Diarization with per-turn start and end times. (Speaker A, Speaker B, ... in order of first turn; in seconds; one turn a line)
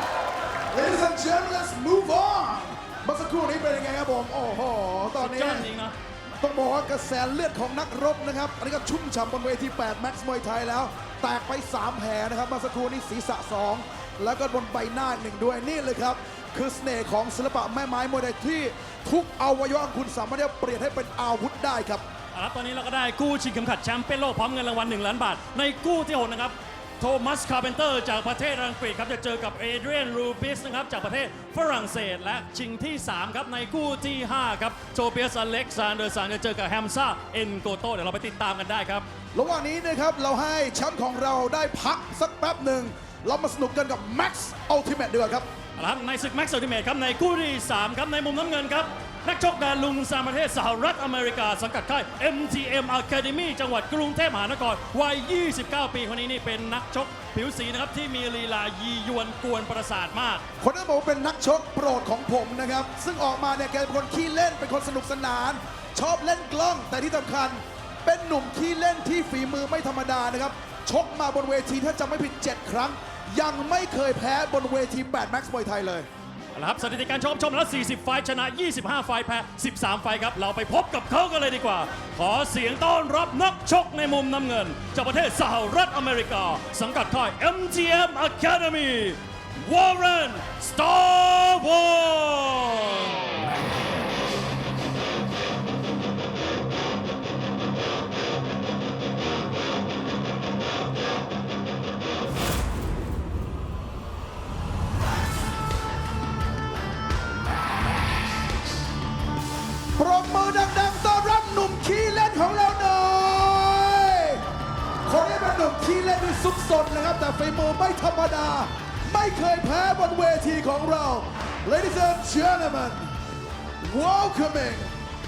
Speaker A: 0.7-5.7
Speaker B: 5.2-5.9
Speaker A: 6.4-22.0
Speaker B: 22.3-39.1
Speaker A: 39.3-45.5
Speaker B: 45.8-60.4
Speaker A: 60.6-76.1
Speaker B: 76.5-93.3
Speaker A: 110.0-114.4
Speaker A: 115.0-123.1
Speaker A: 123.8-124.9